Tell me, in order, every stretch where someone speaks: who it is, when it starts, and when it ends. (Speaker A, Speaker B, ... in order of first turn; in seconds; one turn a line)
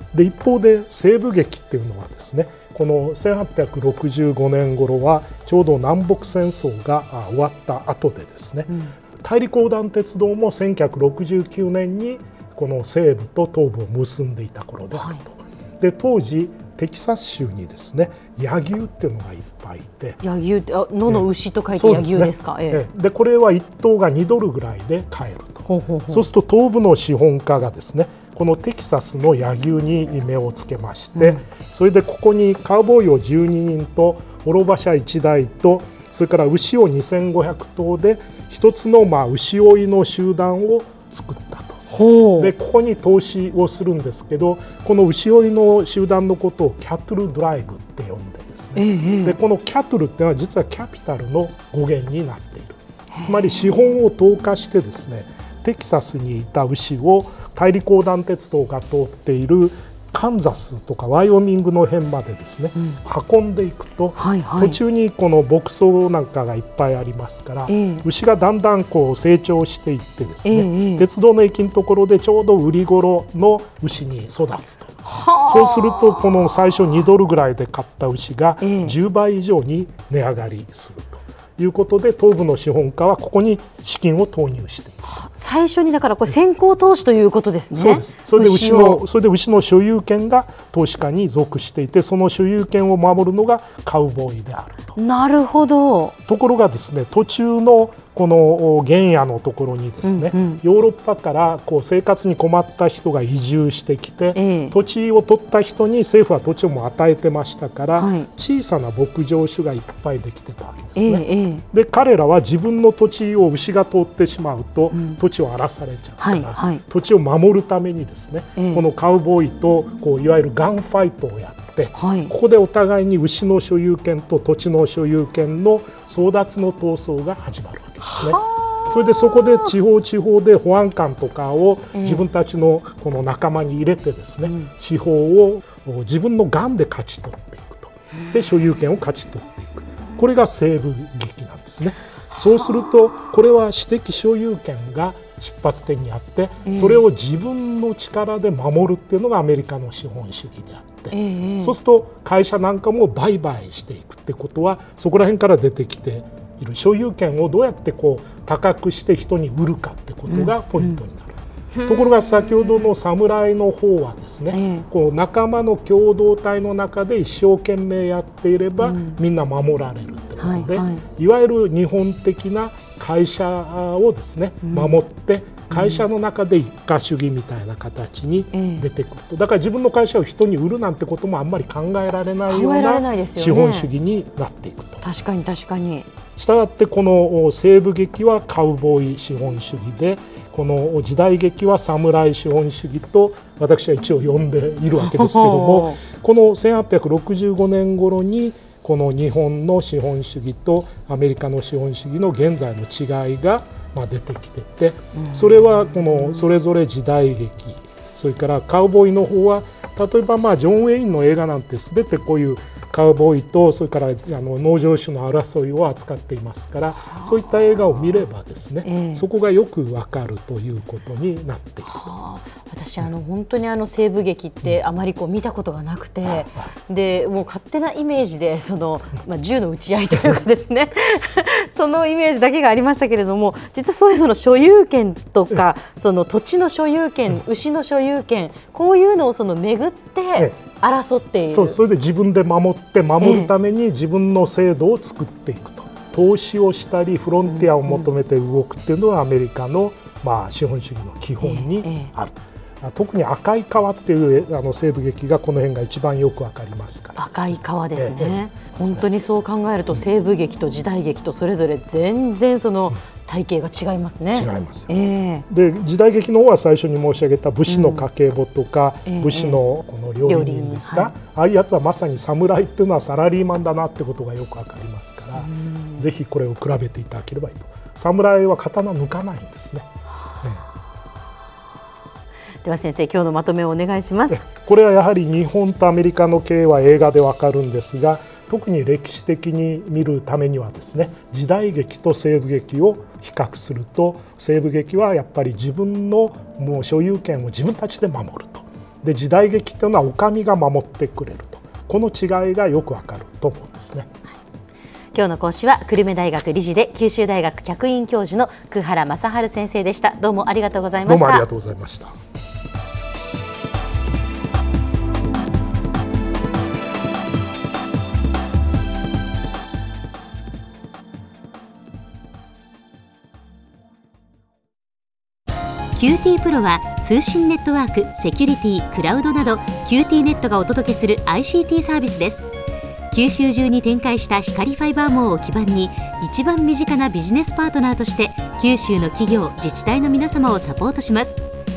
Speaker A: 0.1-20.2
Speaker B: 8.7-8.9
Speaker B: 14.9-15.2
Speaker B: 20.2-22.9
Speaker A: 21.1-41.9
Speaker B: 25.7-26.3
Speaker B: 31.2-31.4
Speaker B: 41.9-42.5
Speaker A: 42.4-85.0
Speaker B: 48.8-49.4
Speaker B: 53.1-53.6
Speaker B: 64.2-64.8
Speaker B: 67.7-68.1
Speaker B: 70.4-71.1
Speaker B: 75.0-76.4
Speaker B: 78.6-79.0
Speaker B: 85.0-89.0
Speaker A: 87.7-95.0
Speaker B: 95.0-96.2
Speaker A: 96.3-161.3
Speaker B: 100.0-100.6
Speaker B: 104.3-104.8
Speaker B: 108.0-108.3
Speaker B: 111.0-111.6
Speaker B: 114.9-115.2
Speaker B: 116.2-116.8
Speaker B: 118.6-118.8
Speaker B: 121.9-122.3
Speaker B: 128.0-129.7
Speaker B: 131.9-132.2
Speaker B: 134.4-134.7
Speaker B: 146.6-147.0
Speaker B: 151.1-151.8
Speaker B: 160.3-161.0
Speaker B: 161.8-162.2
Speaker A: 161.9-185.0
Speaker B: 164.5-164.9
Speaker B: 168.8-169.2
Speaker B: 170.4-171.0
Speaker B: 174.6-175.0
Speaker B: 175.7-176.1
Speaker B: 178.5-178.9
Speaker B: 182.5-183.9
Speaker B: 185.0-186.1
Speaker A: 186.4-221.9
Speaker B: 195.0-196.0
Speaker B: 205.1-206.5
Speaker B: 218.8-219.3
Speaker B: 221.9-241.8
Speaker A: 226.2-226.7
Speaker A: 241.5-259.1
Speaker B: 243.2-243.5
Speaker B: 247.5-248.1
Speaker B: 251.4-252.1
Speaker B: 257.2-265.4
Speaker A: 264.3-264.9
Speaker A: 265.5-279.9
Speaker B: 267.7-268.1
Speaker B: 269.1-269.6
Speaker B: 270.2-271.1
Speaker B: 275.4-276.1
Speaker B: 282.6-284.4
Speaker A: 284.3-304.1
Speaker B: 305.1-311.5
Speaker A: 311.1-312.1
Speaker B: 326.0-332.5
Speaker B: 333.1-341.4